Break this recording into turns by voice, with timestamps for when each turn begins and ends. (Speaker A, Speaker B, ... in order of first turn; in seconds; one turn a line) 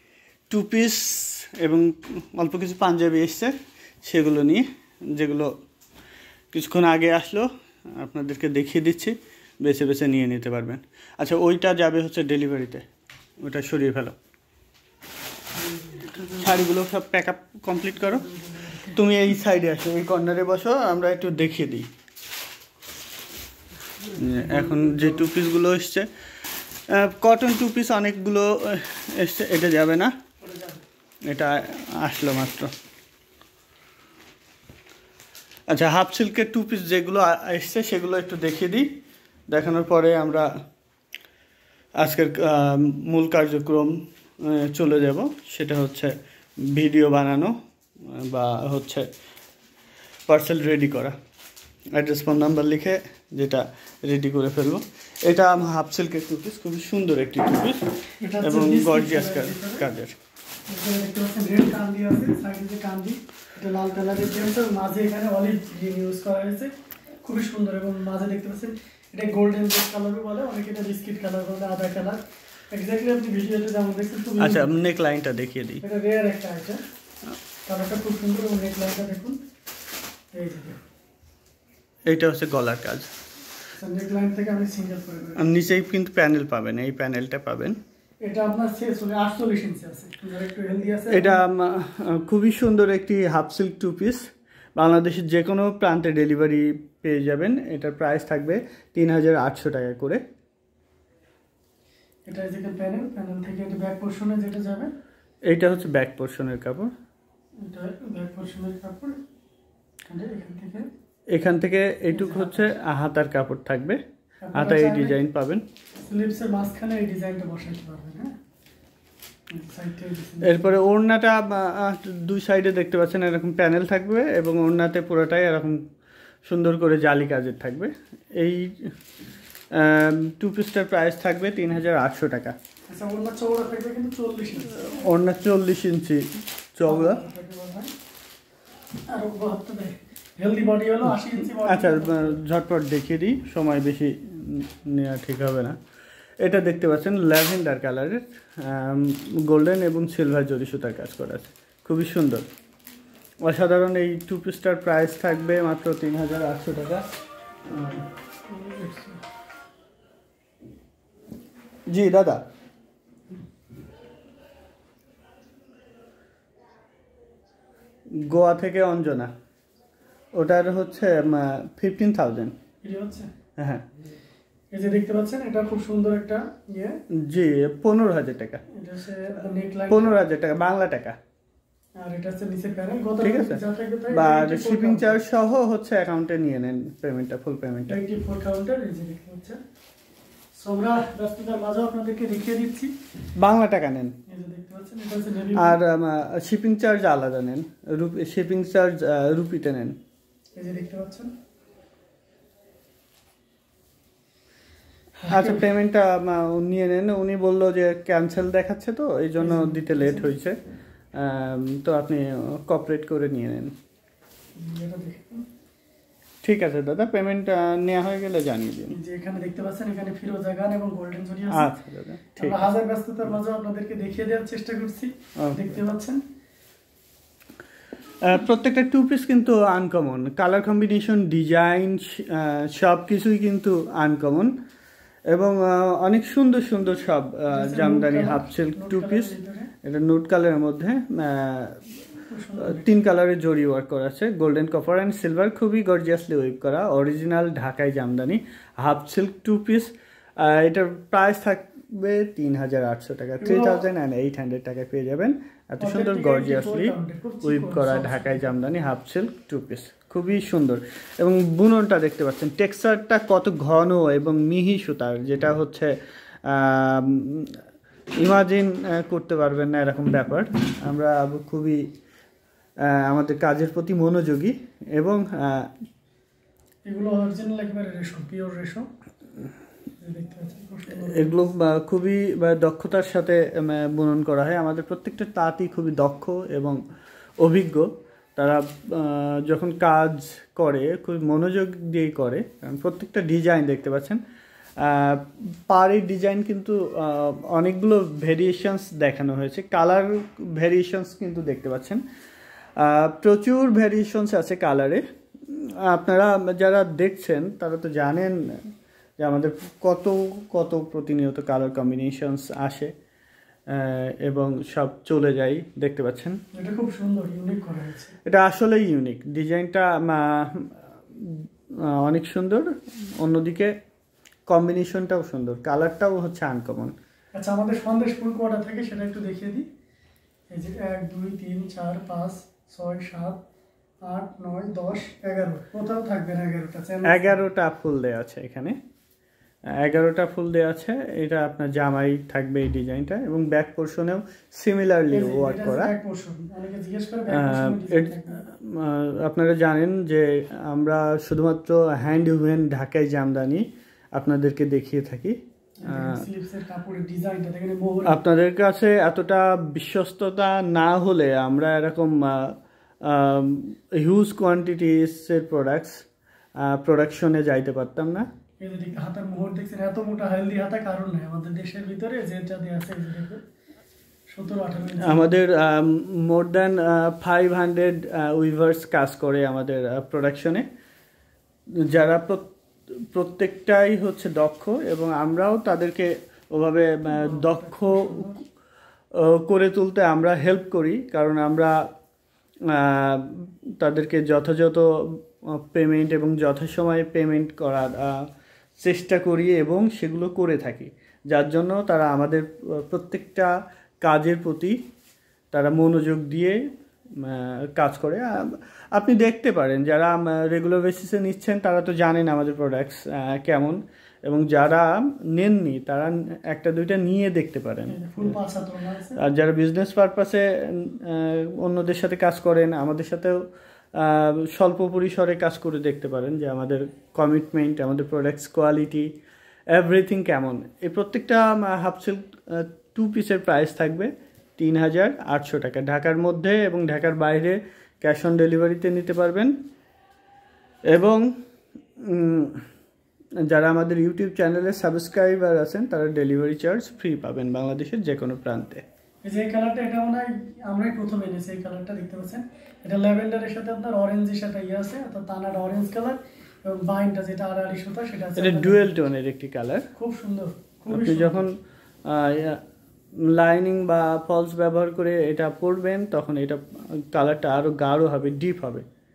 Speaker A: 0.5-3.5
Speaker A: 4.0-5.5
Speaker A: 6.5-12.9
Speaker A: 13.4-14.2
Speaker B: 15.7-16.1
Speaker A: 16.1-21.9
Speaker B: 18.4-18.8
Speaker A: 24.1-26.1
Speaker B: 24.2-25.2
Speaker A: 26.9-30.1
Speaker B: 30.4-30.8
Speaker A: 31.3-32.7
Speaker A: 35.7-38.9
Speaker A: 39.5-40.5
Speaker A: 42.0-47.5
Speaker A: 48.1-49.1
Speaker A: 50.3-51.2
Speaker A: 51.9-60.2
Speaker B: 58.2-59.9
Speaker B: 60.7-66.7
Speaker B: 67.2-72.2
Speaker B: 72.7-74.9
Speaker A: 74.4-75.8
Speaker B: 75.8-76.8
Speaker B: 77.7-79.4
Speaker B: 80.3-80.8
Speaker A: 82.1-83.1
Speaker B: 83.8-85.4
Speaker A: 85.4-87.8
Speaker B: 88.2-91.4
Speaker A: 91.1-100.2
Speaker B: 102.3-104.9
Speaker A: 105.5-106.9
Speaker B: 107.6-109.2
Speaker B: 110.1-110.9
Speaker A: 111.3-114.0
Speaker B: 112.1-112.7
Speaker B: 114.4-115.2
Speaker A: 114.5-115.6
Speaker B: 116.0-118.3
Speaker B: 119.5-120.7
Speaker A: 120.4-125.8
Speaker A: 126.4-128.9
Speaker A: 129.7-132.6
Speaker B: 132.9-135.1
Speaker A: 134.7-137.2
Speaker B: 136.9-137.9
Speaker B: 139.1-142.4
Speaker A: 141.5-145.8
Speaker A: 146.4-152.4
Speaker A: 153.4-157.0
Speaker A: 157.7-158.0
Speaker B: 158.5-159.2
Speaker A: 161.9-162.4
Speaker A: 168.1-169.3
Speaker A: 170.3-172.6
Speaker B: 172.8-173.3
Speaker A: 173.6-173.8
Speaker B: 174.7-177.0
Speaker A: 177.2-178.6
Speaker B: 178.8-180.2
Speaker A: 179.9-181.2
Speaker B: 182.0-185.2
Speaker A: 183.2-188.0
Speaker B: 187.9-189.6
Speaker B: 190.6-192.9
Speaker A: 193.4-194.2
Speaker B: 194.3-195.8
Speaker A: 195.6-200.0
Speaker B: 200.6-201.3
Speaker B: 205.2-205.6
Speaker A: 205.3-210.6
Speaker B: 209.4-210.3
Speaker A: 211.2-213.7
Speaker B: 214.6-215.5
Speaker A: 216.4-219.0
Speaker B: 218.9-221.7
Speaker A: 221.5-222.7
Speaker B: 222.4-226.2
Speaker A: 225.4-225.8
Speaker A: 228.2-234.5
Speaker A: 235.3-239.3
Speaker B: 237.5-239.7
Speaker A: 239.8-241.8
Speaker B: 242.3-243.0
Speaker A: 242.6-265.9
Speaker B: 253.4-253.8
Speaker B: 255.8-258.5
Speaker A: 266.5-267.6
Speaker A: 268.2-271.9
Speaker A: 272.9-275.7
Speaker B: 276.9-278.9
Speaker B: 280.0-281.4
Speaker A: 280.9-286.8
Speaker A: 287.4-294.2
Speaker A: 294.8-302.0
Speaker A: 302.8-308.4
Speaker A: 309.2-312.9
Speaker A: 313.7-316.4
Speaker B: 316.5-318.1
Speaker A: 318.3-323.7
Speaker A: 324.5-326.9
Speaker B: 327.4-329.7
Speaker B: 330.5-333.4
Speaker B: 334.1-337.5
Speaker A: 337.1-338.8
Speaker A: 339.8-345.9
Speaker B: 345.1-348.4
Speaker A: 347.3-356.2
Speaker B: 355.8-358.2
Speaker A: 358.1-366.0
Speaker A: 366.6-368.3
Speaker B: 368.6-373.4
Speaker B: 374.3-375.3
Speaker A: 375.0-380.6
Speaker A: 381.9-382.5
Speaker A: 383.1-388.3
Speaker B: 387.1-388.4
Speaker A: 389.1-391.8
Speaker A: 392.7-404.8
Speaker A: 405.5-406.6
Speaker A: 407.2-418.4
Speaker B: 417.9-419.2
Speaker A: 419.2-423.4
Speaker A: 424.0-429.1
Speaker A: 429.7-439.5
Speaker A: 440.9-441.2
Speaker A: 442.0-442.6
Speaker A: 443.5-448.8
Speaker B: 449.2-459.1
Speaker A: 458.4-459.9
Speaker B: 460.0-461.5
Speaker A: 460.9-462.6
Speaker A: 463.2-468.9